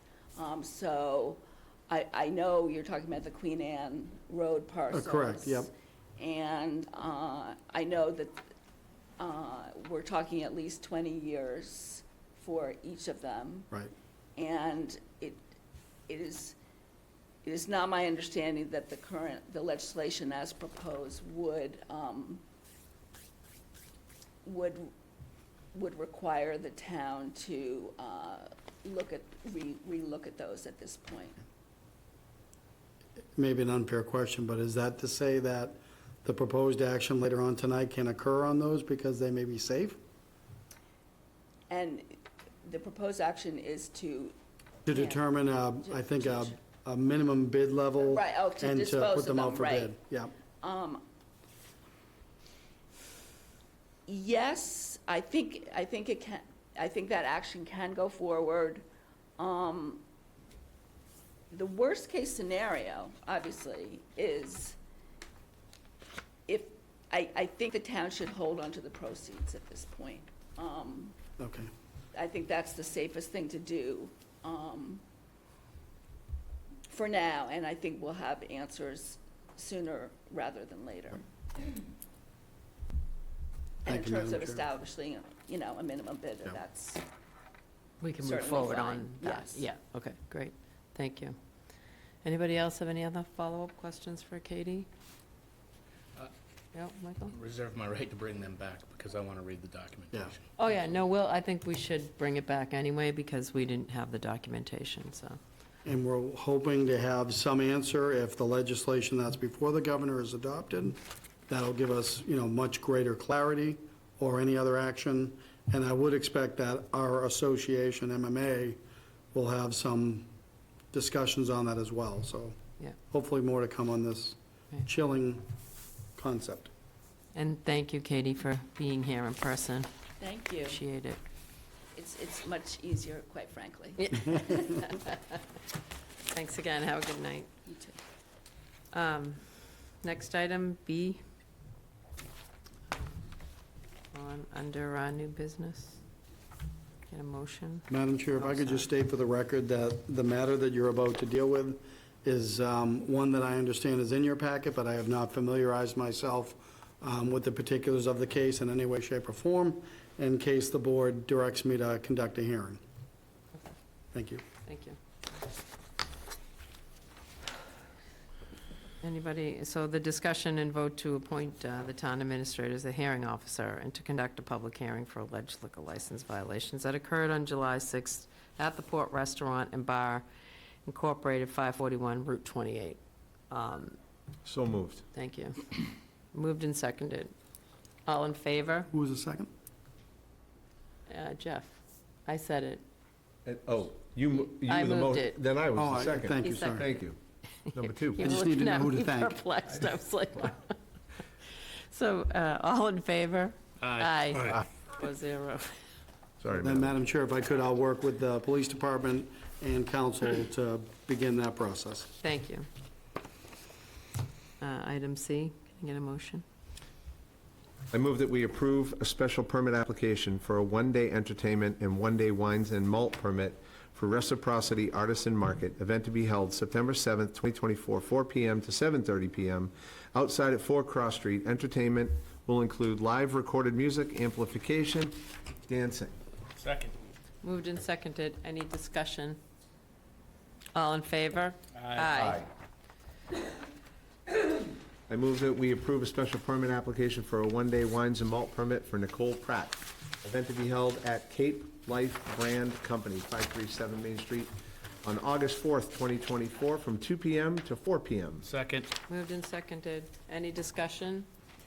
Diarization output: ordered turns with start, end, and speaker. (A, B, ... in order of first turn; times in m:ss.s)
0:00.4-0:08.5 A
0:04.9-0:05.7 B
0:09.2-0:13.7 A
0:14.4-0:15.4 A
0:16.1-0:16.6 A
0:17.4-0:22.4 A
0:24.4-0:24.9 A
0:25.7-0:31.4 A
0:33.4-0:40.0 B
0:41.7-0:44.4 A
0:44.9-0:50.3 B
0:44.9-0:46.6 A
0:48.0-0:50.0 A
0:50.6-0:51.1 A
0:54.1-0:58.8 A
0:59.4-1:00.0 A
1:01.5-1:04.8 A
1:06.5-1:11.2 A
1:11.4-1:11.7 B
1:12.1-1:15.0 A
1:16.9-1:21.2 A
1:23.8-1:27.0 A
1:23.9-1:24.6 B
1:28.0-1:31.4 C
1:28.2-1:29.7 A
1:32.2-1:34.9 C
1:36.7-1:37.3 C
1:37.3-1:40.3 D
1:40.6-1:45.4 C
1:45.8-1:58.8 B
1:59.3-2:00.3 B
2:00.9-2:02.6 B
2:03.1-2:05.4 B
2:06.2-2:06.7 B
2:07.4-2:09.9 C
2:10.2-2:10.8 A
2:10.7-2:11.2 C
2:12.0-2:14.6 A
2:14.2-2:15.2 C
2:16.3-2:17.5 C
2:17.7-2:18.0 A
2:18.9-2:19.4 C
2:20.0-2:21.2 C
2:24.1-2:26.0 C
2:27.1-2:28.9 C
2:27.9-2:42.8 B
2:44.1-2:44.4 B
2:44.7-2:45.0 C
2:49.0-3:00.3 C
3:00.9-3:03.0 C
3:03.5-3:04.0 C
3:04.4-3:05.0 E
3:05.1-3:07.3 C
3:08.1-3:08.9 C
3:08.9-3:09.5 B
3:11.1-3:12.8 C
3:13.5-3:17.2 E
3:14.6-3:15.4 C
3:15.8-3:16.9 B
3:16.3-3:17.0 C
3:17.7-3:20.8 C
3:17.7-3:18.2 E
3:18.2-3:19.4 B
3:21.6-3:25.8 C
3:23.8-3:24.6 D
3:26.4-3:27.0 E
3:26.6-3:32.1 B
3:32.2-3:32.7 C
3:34.6-3:36.4 C
3:37.9-3:56.2 E
3:56.6-3:56.9 D
3:57.4-3:59.4 C
4:00.7-4:02.4 C
4:01.8-4:02.1 D
4:02.2-4:02.5 E
4:05.1-4:14.5 E
4:15.0-4:18.5 E
4:18.4-4:18.9 D
4:19.1-4:21.3 C